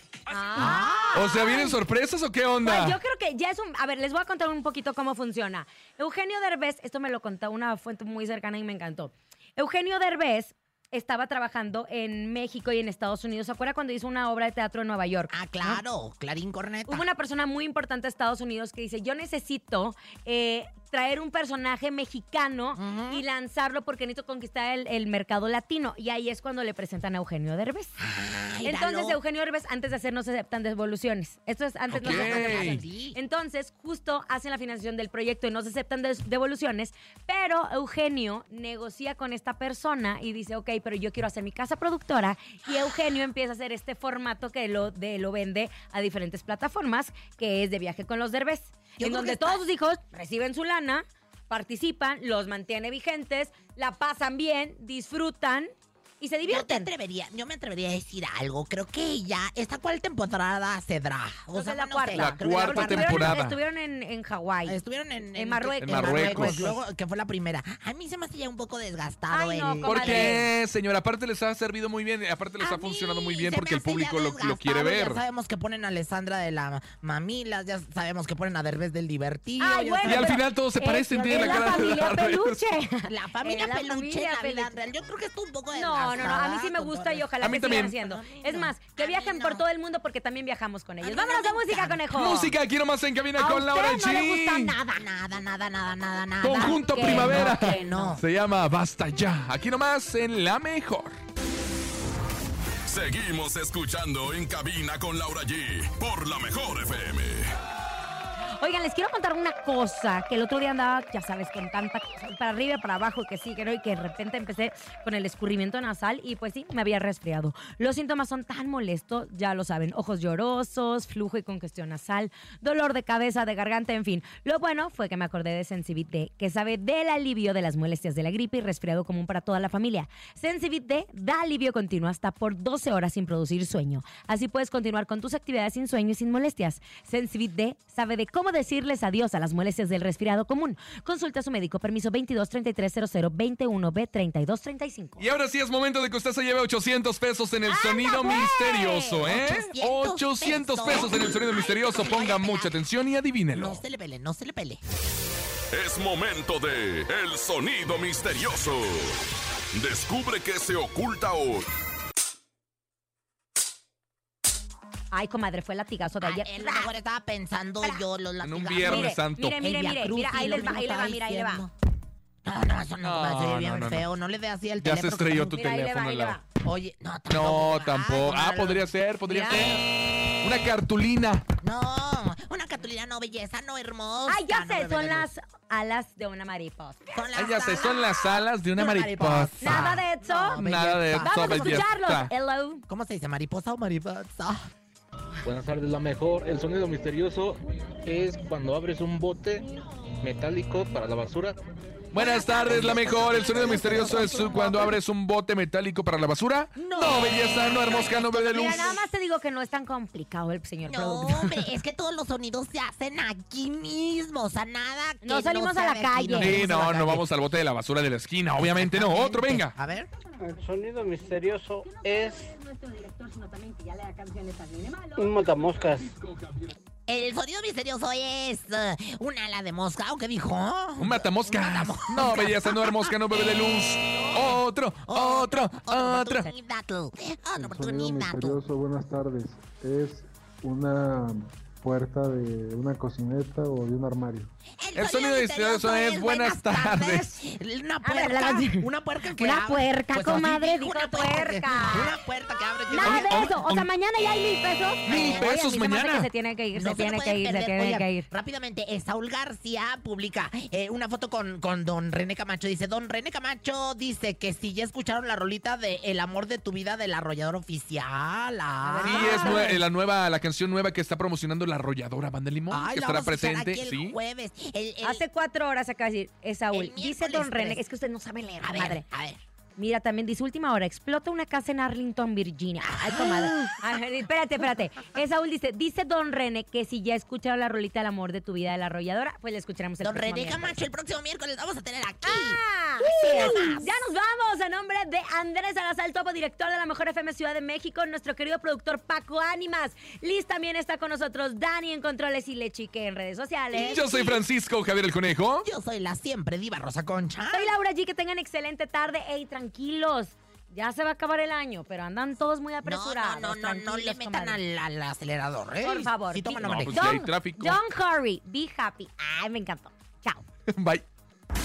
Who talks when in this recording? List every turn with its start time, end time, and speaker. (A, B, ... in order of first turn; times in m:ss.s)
0:00.3-0:01.8 A
0:00.6-0:01.3 B
0:01.1-0:03.0 C
0:02.6-0:15.8 A
0:15.3-0:17.1 B
0:16.9-0:28.0 A
0:22.8-0:23.2 B
0:28.0-0:29.2 B
0:28.6-0:56.9 A
0:31.9-0:32.8 C
0:32.0-0:33.2 B
0:49.0-0:49.6 B
0:56.4-1:03.4 B
1:01.5-1:04.8 A
1:02.1-1:03.6 C
1:04.6-1:10.4 B
1:05.3-1:06.8 A
1:05.8-1:06.7 C
1:09.3-1:10.5 A
1:09.8-1:15.2 C
1:12.6-1:20.4 B
1:19.6-1:24.8 A
1:20.0-1:22.6 C
1:21.3-1:21.8 B
1:23.1-1:29.6 B
1:25.7-1:32.5 A
1:27.4-1:27.9 C
1:31.0-1:32.0 B
1:32.1-1:34.7 C
1:33.4-1:34.8 A
1:34.7-1:38.2 B
1:36.4-1:41.1 C
1:36.4-1:38.2 A
1:42.8-1:47.5 D
1:48.6-2:25.3 A
2:25.2-2:33.8 C
2:27.7-2:29.2 A
2:29.2-2:32.7 B
2:33.5-2:34.8 B
2:35.7-2:39.2 D
2:39.7-2:41.6 D
2:45.1-2:46.9 A
2:46.2-2:51.7 B
2:48.4-2:49.6 C
2:48.8-2:51.6 A
2:52.4-2:55.6 B
2:53.0-2:54.0 C
2:54.8-2:56.4 C
2:55.4-2:56.4 A
2:56.6-2:58.9 B
2:57.3-2:59.8 C
2:59.3-2:59.7 A
2:59.4-2:59.8 B
3:00.4-3:01.4 C
3:01.6-3:05.3 B
3:04.3-3:07.1 A
3:07.1-3:11.9 B
3:07.3-3:10.0 C
3:09.6-3:10.6 A
3:10.6-3:12.3 C
3:11.2-3:12.8 A
3:12.9-3:14.7 B
3:15.4-3:19.6 E
3:20.2-3:21.6 E
3:22.1-3:28.9 C
3:22.2-3:25.0 B
3:26.8-3:29.0 B
3:28.5-3:31.6 A
3:30.9-3:37.2 B
3:35.2-3:36.6 A
3:36.3-3:39.7 C
3:38.6-3:40.1 B
3:40.4-3:42.3 F
3:42.2-3:45.0 A
3:45.2-3:46.0 F
3:47.1-3:53.1 B
3:51.0-3:56.5 C
3:55.0-3:58.6 B
3:57.6-4:04.5 G
4:04.8-4:13.5 B
4:04.9-4:07.3 C
4:08.0-4:12.1 A
4:12.9-4:18.3 A
4:13.0-4:13.9 C
4:15.1-4:16.3 C
4:15.1-4:15.5 B
4:16.7-4:29.8 B
4:28.8-4:29.8 A
4:29.0-4:34.2 C
4:32.7-4:35.2 B
4:35.0-4:39.0 A
4:36.7-4:37.8 B
4:38.6-4:39.4 B
4:39.8-4:50.8 A
4:42.8-4:43.8 B
4:50.0-4:54.0 B
4:52.2-5:04.4 A
5:03.8-5:05.6 C
5:05.6-5:07.7 B
5:07.5-5:14.6 A
5:12.8-5:17.2 B
5:15.8-5:20.4 A
5:16.6-5:17.8 C
5:20.7-5:21.0 C